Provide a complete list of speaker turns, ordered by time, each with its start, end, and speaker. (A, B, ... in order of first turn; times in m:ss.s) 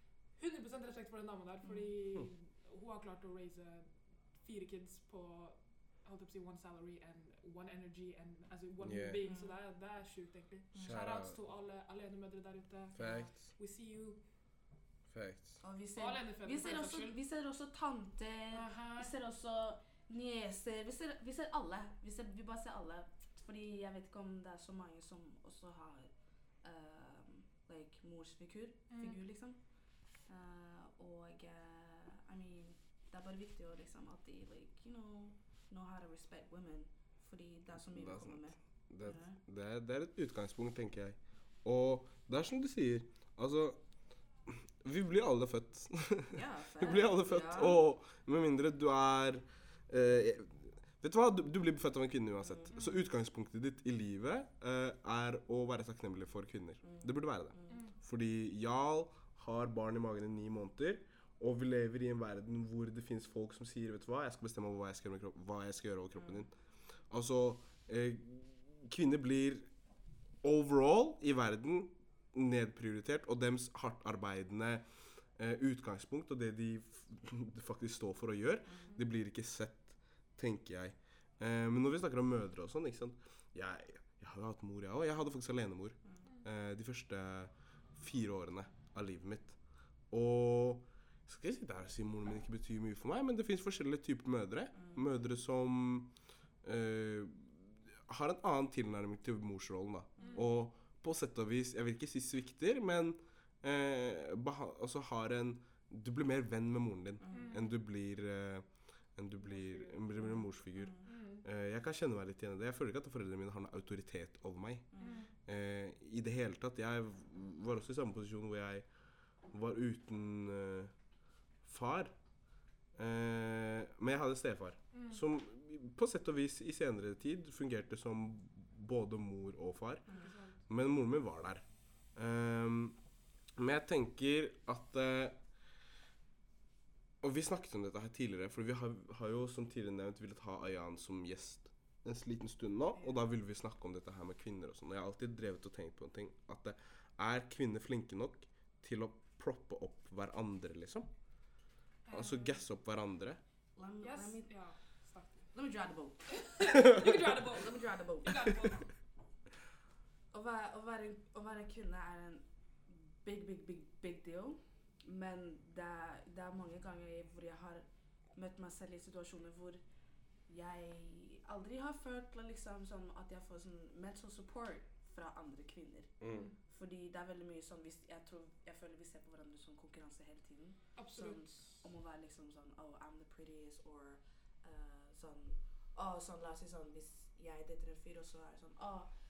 0:00.4-0:03.9 A
0:01.6-0:01.9 B
0:04.4-0:14.2 A
0:08.8-0:09.2 C
0:09.2-0:09.6 B
0:10.8-0:11.4 C
0:13.0-0:13.4 C
0:15.1-0:15.6 C
0:15.6-0:26.1 B
0:16.0-0:17.2 A
0:18.5-0:19.1 A
0:26.6-0:29.6 B
0:28.9-0:29.2 A
0:30.3-0:39.4 B
0:38.0-0:43.8 C
0:44.5-1:06.5 C
0:46.3-0:47.8 B
0:52.7-0:53.0 A
0:56.8-0:57.9 B
0:57.7-0:57.9 A
1:06.2-1:06.4 B
1:07.1-1:09.7 C
1:10.4-1:14.9 C
1:15.4-1:29.6 C
1:18.7-1:19.0 B
1:30.1-1:36.1 C
1:34.8-1:35.0 B
1:36.6-1:54.9 C
1:40.2-1:40.5 B
1:40.2-1:40.5 A
1:47.2-1:47.6 B
1:47.3-1:47.8 A
1:49.4-1:50.1 A
1:50.2-1:51.1 B
1:51.0-1:51.4 A
1:54.9-1:55.2 B
1:55.0-1:55.3 A
1:55.5-1:58.9 C
1:59.5-2:00.9 C
2:01.6-2:02.1 C
2:03.0-2:10.1 C
2:04.9-2:05.2 A
2:10.1-2:10.6 A
2:10.7-2:11.6 C
2:12.2-2:13.0 C
2:13.6-2:15.4 C
2:17.2-2:31.1 C
2:32.1-2:32.6 A
2:32.1-2:33.4 C
2:33.8-2:34.5 B
2:34.0-2:35.5 A
2:35.5-2:38.7 B
2:36.3-2:38.9 A
2:40.3-2:49.8 B
2:50.5-2:56.1 B
2:56.2-2:56.5 C
2:56.7-3:09.1 B
3:01.0-3:01.4 A